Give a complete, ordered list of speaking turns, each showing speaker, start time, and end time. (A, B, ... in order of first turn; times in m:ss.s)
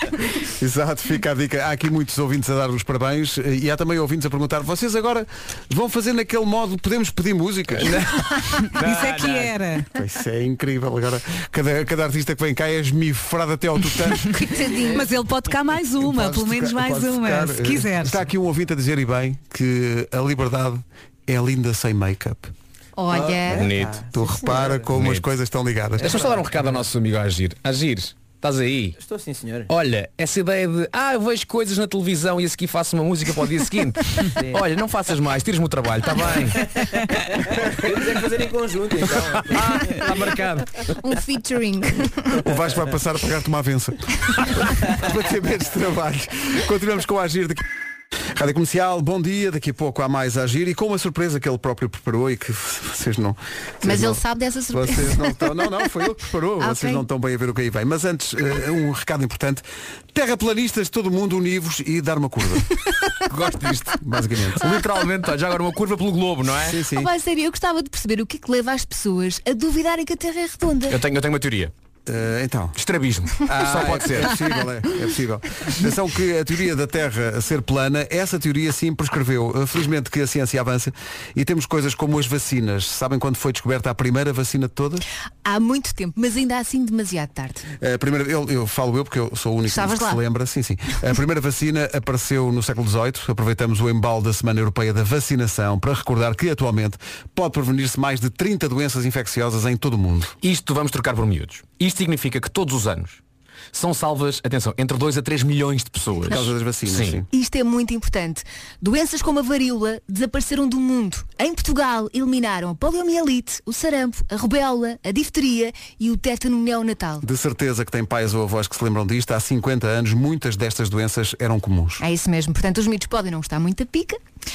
0:00.6-0:08.0 A
0:07.8-0:09.5 B
0:08.5-0:09.9 C
0:09.9-0:14.4 A
0:14.3-0:15.0 D
0:14.9-0:18.2 C
0:16.0-0:22.5 A
0:23.0-0:23.7 D
0:23.1-0:24.9 E
0:23.5-0:24.0 B
0:24.1-0:26.2 A
0:24.9-0:25.3 B
0:26.0-0:26.8 E
0:26.0-0:29.0 B
0:29.0-0:29.7 E
0:29.7-0:36.7 B
0:34.2-0:34.6 E
0:37.5-0:40.4 E
0:39.3-0:40.7 B
0:41.0-0:42.4 D
0:42.4-0:47.6 A
0:48.3-1:02.8 A
0:53.8-0:55.6 D
0:56.6-0:57.0 D
1:03.3-1:04.0 B
1:03.9-1:04.7 A
1:04.6-1:06.8 B
1:06.6-1:07.1 A
1:06.8-1:11.0 D
1:10.9-1:11.7 B
1:12.1-1:12.8 A
1:12.8-1:14.4 B
1:13.5-1:25.0 A
1:25.4-1:27.7 D
1:27.8-1:40.4 A
1:29.7-1:30.2 D
1:40.4-1:43.2 B
1:43.7-1:47.2 B
1:46.3-1:47.3 A
1:47.3-1:57.2 D
1:57.2-2:02.0 A
2:02.0-2:04.2 D